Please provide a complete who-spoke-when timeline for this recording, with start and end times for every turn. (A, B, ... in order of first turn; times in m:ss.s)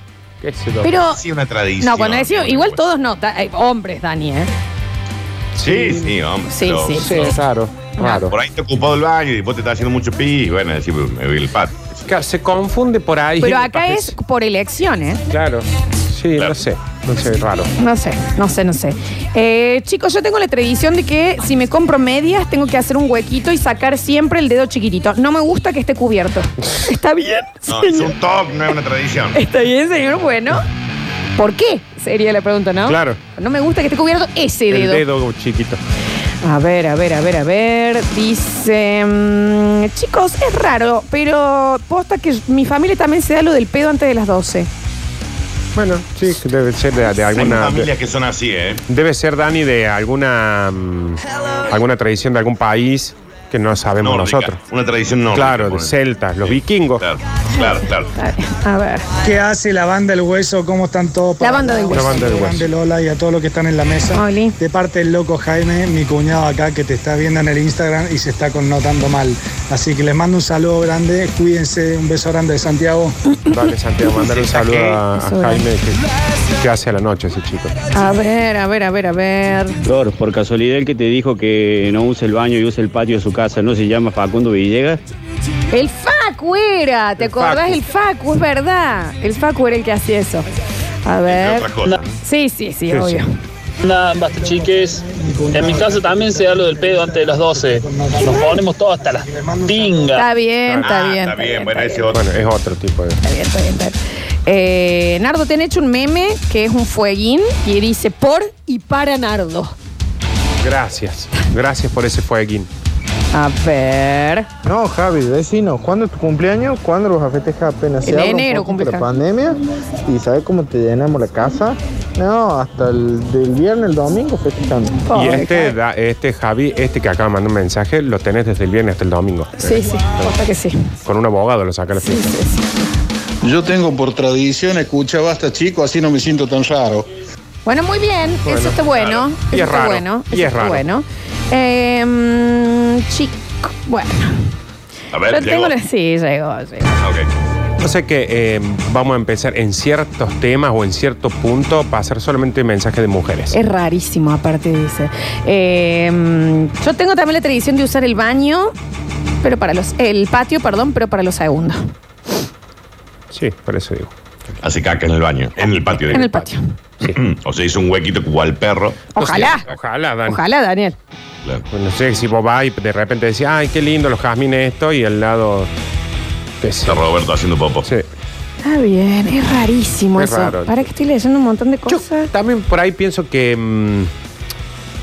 0:00.4-0:00.9 A
0:00.8-0:01.2 B
0:01.1-0:02.8 C
0:01.8-0:04.5 B
0:05.6-0:06.1 A
0:05.6-0:07.4 C
0:06.5-0:07.4 B
0:07.0-0:08.3 A
0:08.0-0:08.2 B
0:08.3-0:12.0 C
0:12.1-0:14.2 A
0:13.4-0:15.2 B
0:15.3-0:17.7 A
0:17.8-0:28.2 B
0:27.7-0:29.4 C
0:29.4-0:30.6 B
0:31.4-0:35.0 B
0:32.9-0:33.2 A
0:34.7-0:35.8 A
0:36.4-0:44.7 B
0:45.8-0:47.9 A
0:47.4-0:48.8 C
0:48.9-0:54.6 A
0:54.0-0:58.1 C
0:55.3-0:57.0 A
0:58.2-0:59.1 B
0:59.2-1:13.2 D
1:01.4-1:02.2 B
1:01.9-1:02.7 A
1:04.1-1:04.6 B
1:13.5-1:16.0 A
1:14.2-1:14.9 C
1:15.1-1:15.6 B
1:16.6-1:17.8 A
1:17.9-1:19.8 B
1:19.9-1:25.0 E
1:25.7-1:30.5 B
1:27.2-1:27.8 A
1:31.1-1:31.7 B
1:31.3-1:32.1 C
1:32.2-1:33.3 B
1:32.9-1:33.2 A
1:33.8-1:40.3 F
1:35.1-1:36.8 D
1:37.6-1:38.6 D
1:39.3-1:40.0 D
1:40.2-1:42.1 B
1:40.8-1:42.4 C
1:42.1-1:43.2 A
1:43.2-1:49.8 B
1:50.6-1:52.7 A
1:53.3-1:54.5 B
1:54.6-2:05.0 G
1:58.0-1:59.1 B
2:05.1-2:05.8 B
2:05.1-2:10.3 A
2:09.6-2:10.9 B
2:11.0-2:12.4 A
2:12.0-2:12.8 B
2:13.4-2:17.1 H
2:17.7-2:24.5 B
2:18.5-2:18.8 A
2:19.4-2:20.8 A
2:25.1-2:25.8 C
2:25.3-2:27.0 B
2:27.0-2:27.3 C
2:27.8-2:33.5 A
2:33.5-2:38.7 B
2:39.4-2:41.9 B
2:43.3-2:44.1 A
2:44.6-2:46.3 C
2:45.8-2:46.4 A
2:46.1-2:46.6 B
2:47.0-2:49.1 C
2:49.2-2:49.7 B
2:49.2-2:50.4 A
2:50.3-2:51.0 B
2:51.7-2:55.7 A
2:56.6-2:57.0 A
2:56.9-2:57.9 C
2:58.6-3:02.3 B
3:00.2-3:00.9 A
3:01.9-3:04.1 A